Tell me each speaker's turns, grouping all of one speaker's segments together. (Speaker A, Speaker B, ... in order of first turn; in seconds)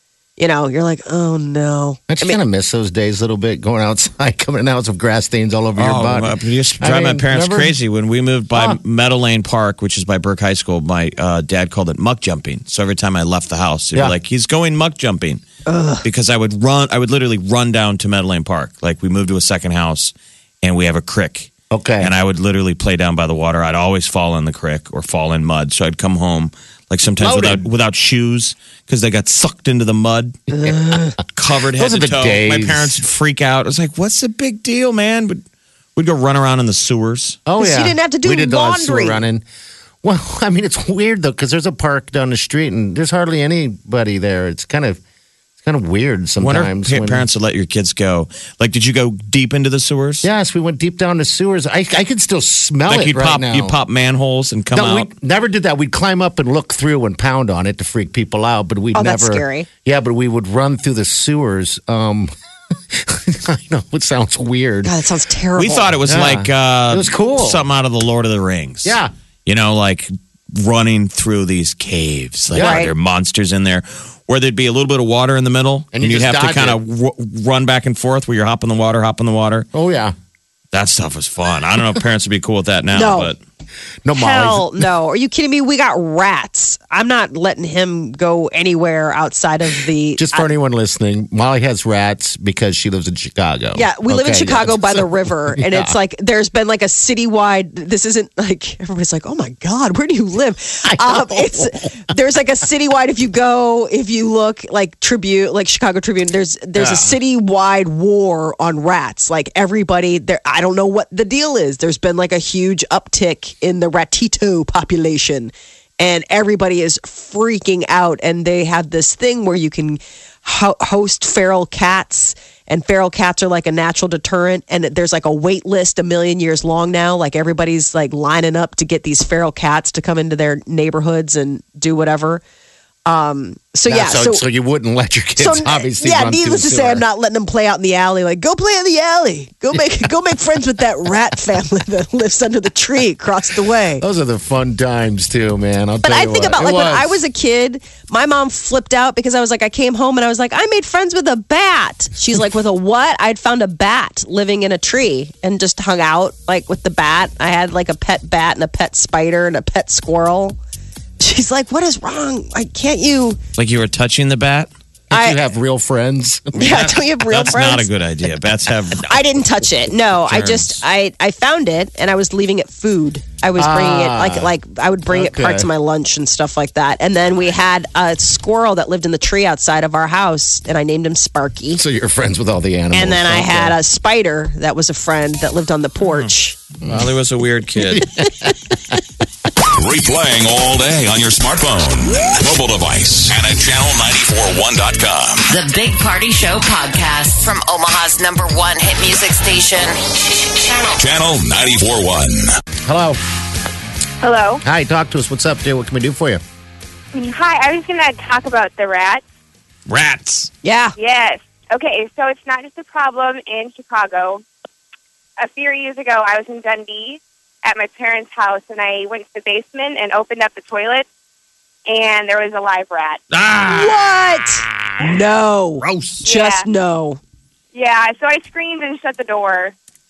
Speaker A: 0.4-2.4, 15.7-16.0, 30.6-31.2, 37.6-39.2, 58.9-59.7, 64.8-65.9, 72.6-72.9, 82.9-83.3, 84.2-90.5, 93.8-132.4, 133.1-134.4, 135.4-144.0, 146.0-160.6, 161.2-163.4, 165.1-165.4, 166.6-167.9, 169.1-181.8, 182.9-186.6, 210.6-210.9, 223.6-227.2
Speaker B: 2.1-7.8, 8.5-8.8, 21.7-22.1, 27.2-27.7, 30.5-31.0, 31.8-33.0, 37.5-39.5, 40.0-45.0, 45.6-47.3, 50.2-53.8, 54.7-62.3, 62.9-64.9, 66.1-67.6, 68.8-69.1, 72.5-72.9, 75.9-76.8, 79.7-80.2, 84.0-84.8, 90.2-95.9, 100.9-102.0, 106.8-107.2, 133.9-137.0, 144.0-147.2, 165.1-166.8, 173.6-174.5, 175.1-175.7, 181.8-183.8, 186.8-187.1, 187.8-188.6, 202.9-203.2, 204.6-206.4
Speaker C: 5.8-15.4, 16.0-30.4, 31.3-35.4, 36.0-37.4, 46.4-50.3, 52.9-55.1, 65.6-79.7, 80.7-83.4, 163.6-164.7, 166.6-169.2, 170.3-170.8, 186.9-188.1, 209.9-210.5, 223.3-224.0, 225.8-226.2
Speaker D: 189.7-195.5, 201.0-202.5
Speaker E: 195.5-201.0
Speaker F: 204.2-204.6, 207.1-209.2, 211.0-214.4, 215.4-221.1, 221.9-223.2, 226.2-226.7, 227.7-229.8